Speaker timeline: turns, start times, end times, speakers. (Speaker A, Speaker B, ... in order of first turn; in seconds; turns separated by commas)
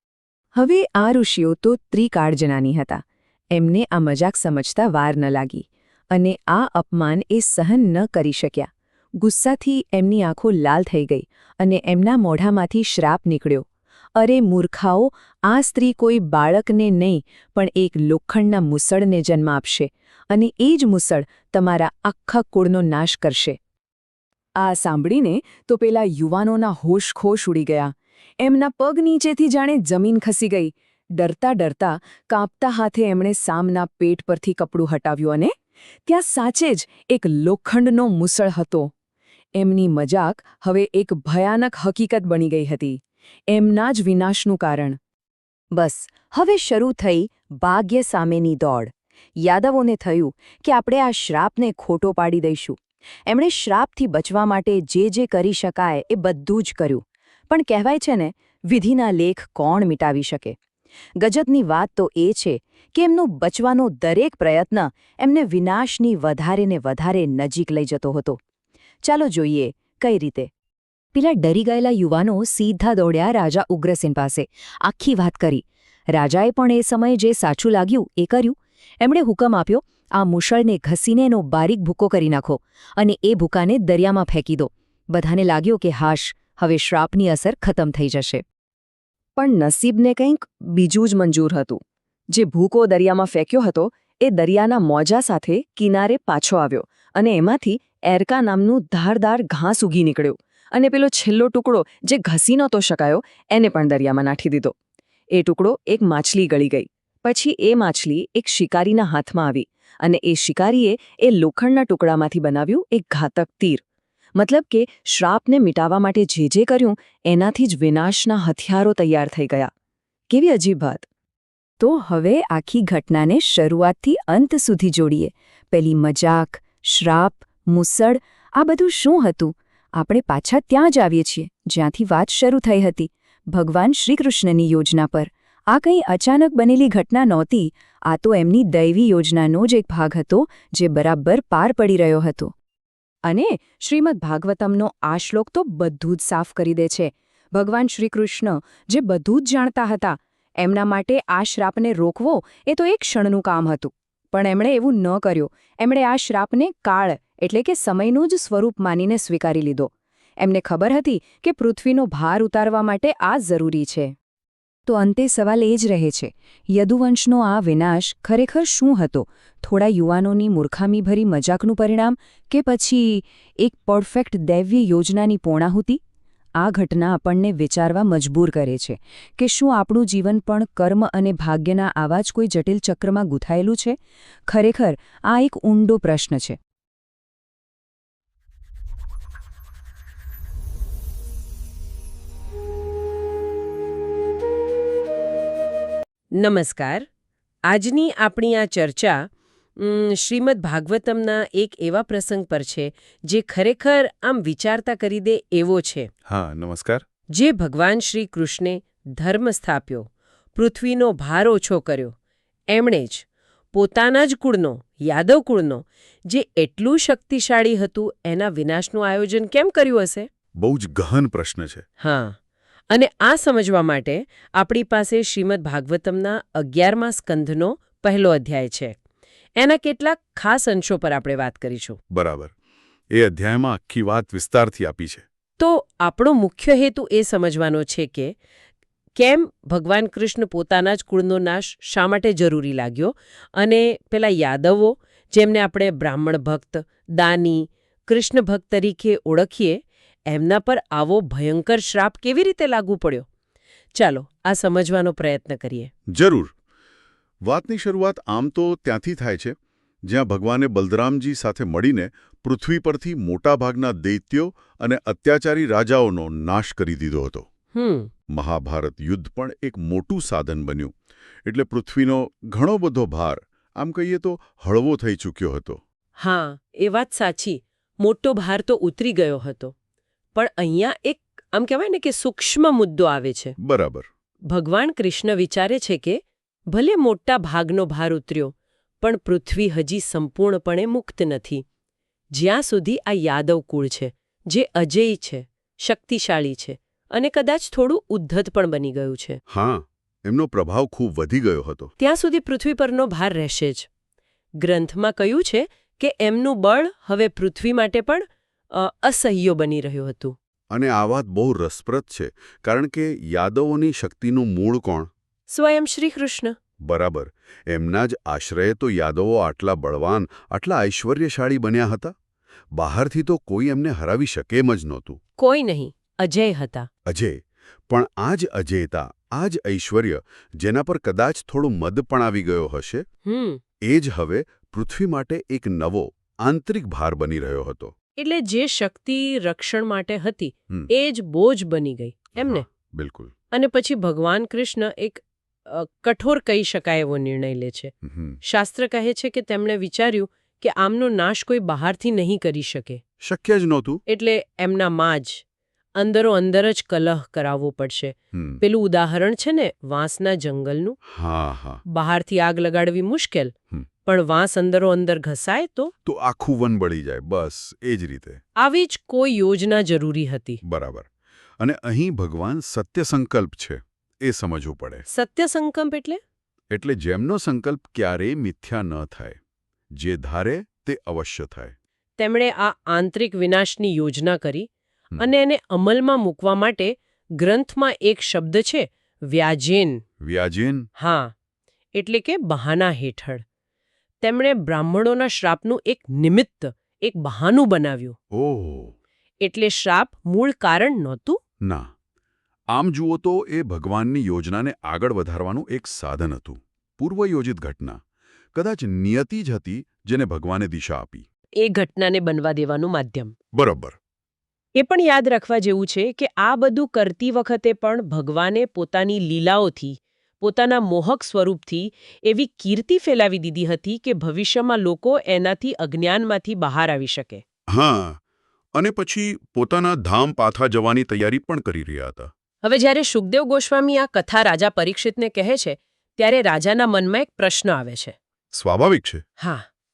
Speaker A: 0.6-8.7, Speaker A: 9.2-13.7, Speaker A: 14.2-23.6, Speaker A: 24.6-35.5, Speaker A: 36.1-38.9, Speaker A: 39.6-45.0, Speaker A: 45.7-60.6, Speaker A: 61.2-68.4, Speaker A: 69.0-70.5, Speaker A: 71.1-88.4, Speaker A: 89.4-91.8, Speaker A: 92.3-104.7, Speaker A: 105.3-113.8, Speaker A: 114.4-119.7, Speaker A: 120.3-121.1, Speaker A: 121.8-142.5, Speaker A: 143.3-164.2, Speaker A: 164.9-176.0, Speaker A: 176.6-184.0, Speaker A: 184.5-186.6, Speaker B: 196.3-197.1, Speaker B: 197.7-199.3, Speaker B: 199.8-206.1, Speaker C: 206.3-207.0, Speaker B: 207.3-212.2, Speaker B: 212.7-220.3, Speaker C: 220.6-221.8, Speaker B: 222.0-222.4, Speaker B: 222.9-229.0, Speaker B: 229.6-232.0, Speaker C: 232.1-232.5, Speaker C: 233.1-235.2, Speaker B: 235.6-238.3, Speaker B: 239.2-253.3, Speaker B: 253.9-255.9, Speaker C: 256.1-256.5, Speaker C: 257.4-259.6, Speaker C: 260.1-267.5, Speaker B: 267.7-268.1, Speaker C: 268.3-270.9, Speaker C: 271.5-275.8, Speaker B: 276.2-279.7, Speaker B: 280.4-283.6, Speaker C: 283.6-284.1, Speaker B: 284.5-291.6, Speaker B: 292.3-299.4, Speaker C: 299.5-301.9, Speaker B: 302.0-303.9, Speaker B: 304.6-310.4, Speaker C: 310.7-315.1, Speaker B: 315.5-316.6, Speaker C: 316.8-322.1, Speaker C: 322.8-325.2, Speaker B: 325.4-326.9, Speaker C: 327.1-327.4, Speaker C: 327.9-333.1, Speaker B: 333.2-333.6, Speaker C: 333.9-337.9, Speaker B: 338.2-342.6, Speaker C: 342.4-343.3, Speaker B: 343.5-347.9, Speaker C: 348.1-348.4, Speaker B: 348.4-353.0, Speaker C: 353.2-354.0, Speaker B: 354.1-355.4, Speaker B: 355.9-361.0, Speaker C: 358.3-358.6, Speaker C: 361.1-361.8, Speaker B: 361.9-363.5, Speaker B: 364.1-365.9, Speaker C: 366.1-368.4, Speaker B: 368.6-370.6, Speaker C: 370.6-371.1, Speaker C: 371.6-375.1, Speaker B: 375.1-376.2, Speaker C: 376.7-379.4, Speaker C: 380.0-381.7, Speaker B: 382.2-390.0, Speaker C: 390.2-390.9, Speaker B: 391.0-391.3, Speaker B: 391.9-393.4, Speaker B: 394.2-398.2, Speaker C: 398.3-398.9, Speaker B: 399.4-401.4, Speaker C: 401.6-401.9, Speaker C: 402.7-408.0, Speaker C: 408.5-411.2, Speaker B: 411.6-413.3, Speaker C: 413.5-414.0, Speaker B: 414.8-427.4, Speaker C: 427.7-428.2, Speaker C: 428.8-432.3, Speaker B: 432.6-438.2, Speaker C: 438.5-439.2, Speaker B: 439.4-439.7